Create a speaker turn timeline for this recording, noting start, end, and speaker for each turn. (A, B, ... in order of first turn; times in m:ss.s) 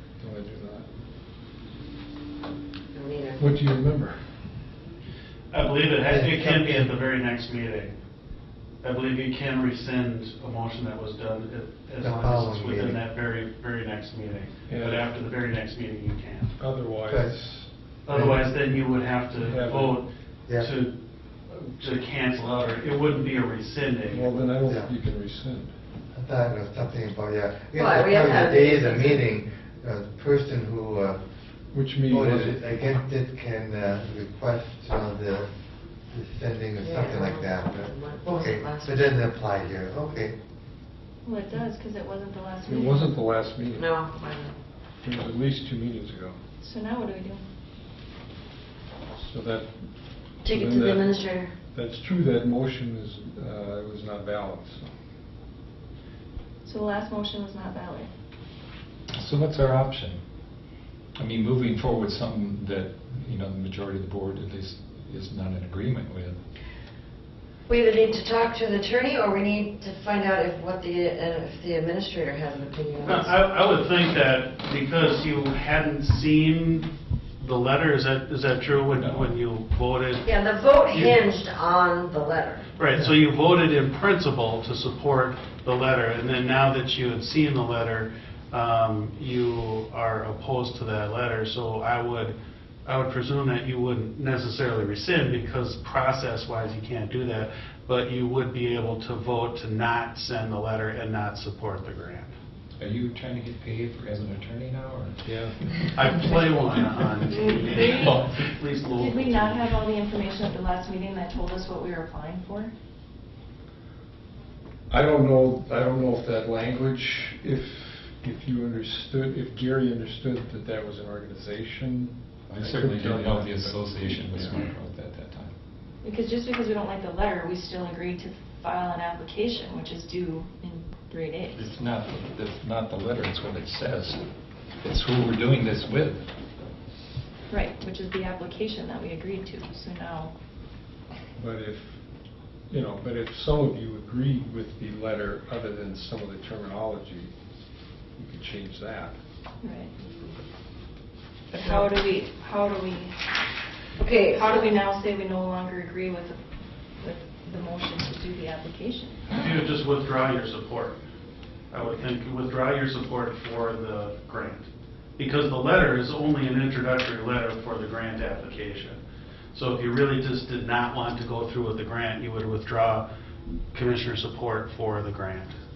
0:00.2-0:00.9 A
0:02.9-0:03.4 B
0:03.4-0:04.3 A
0:05.5-0:07.9 C
0:06.1-0:06.9 D
0:08.8-0:16.5 C
0:12.0-0:13.0 D
0:14.7-0:15.1 A
0:16.6-0:17.7 A
0:17.1-0:17.3 D
0:18.0-0:20.9 C
0:18.1-0:18.4 D
0:19.4-0:20.0 A
0:21.5-0:24.3 C
0:24.1-0:25.8 A
0:24.6-0:24.9 D
0:26.1-0:31.2 D
0:27.7-0:29.3 B
0:31.7-0:32.6 A
0:32.1-0:35.5 D
0:36.1-0:40.4 D
0:36.8-0:39.3 B
0:41.2-0:43.2 E
0:42.7-0:44.0 A
0:43.8-0:44.6 B
0:45.0-0:46.4 A
0:46.6-0:47.4 E
0:49.1-0:51.0 A
0:50.4-0:51.5 B
0:51.7-0:54.9 A
0:56.6-0:58.1 E
0:59.1-1:00.2 F
1:01.2-1:06.4 F
1:07.7-1:13.4 B
1:13.0-1:20.3 C
1:19.0-1:19.3 F
1:20.2-1:22.7 B
1:20.9-1:21.2 C
1:22.8-1:42.3 C
1:42.8-1:45.9 F
1:45.2-1:45.6 A
1:45.9-1:49.6 C
1:47.3-1:48.2 E
1:47.8-1:48.4 F
1:48.9-1:52.7 E
1:54.9-2:04.6 A
2:02.5-2:05.5 F
2:06.0-2:11.7 E
2:11.6-2:14.2 F
2:14.8-2:16.3 F
2:17.5-2:20.3 E
2:21.4-2:22.0 A
2:22.7-2:27.3 A
2:28.2-2:29.2 A
2:29.6-2:29.9 E
2:31.5-2:33.3 E
2:34.0-2:34.7 B
2:34.2-2:36.4 E
2:36.9-2:39.5 E
2:39.3-2:41.0 C
2:41.7-2:49.0 C
2:49.5-2:53.0 C
2:53.7-2:55.6 C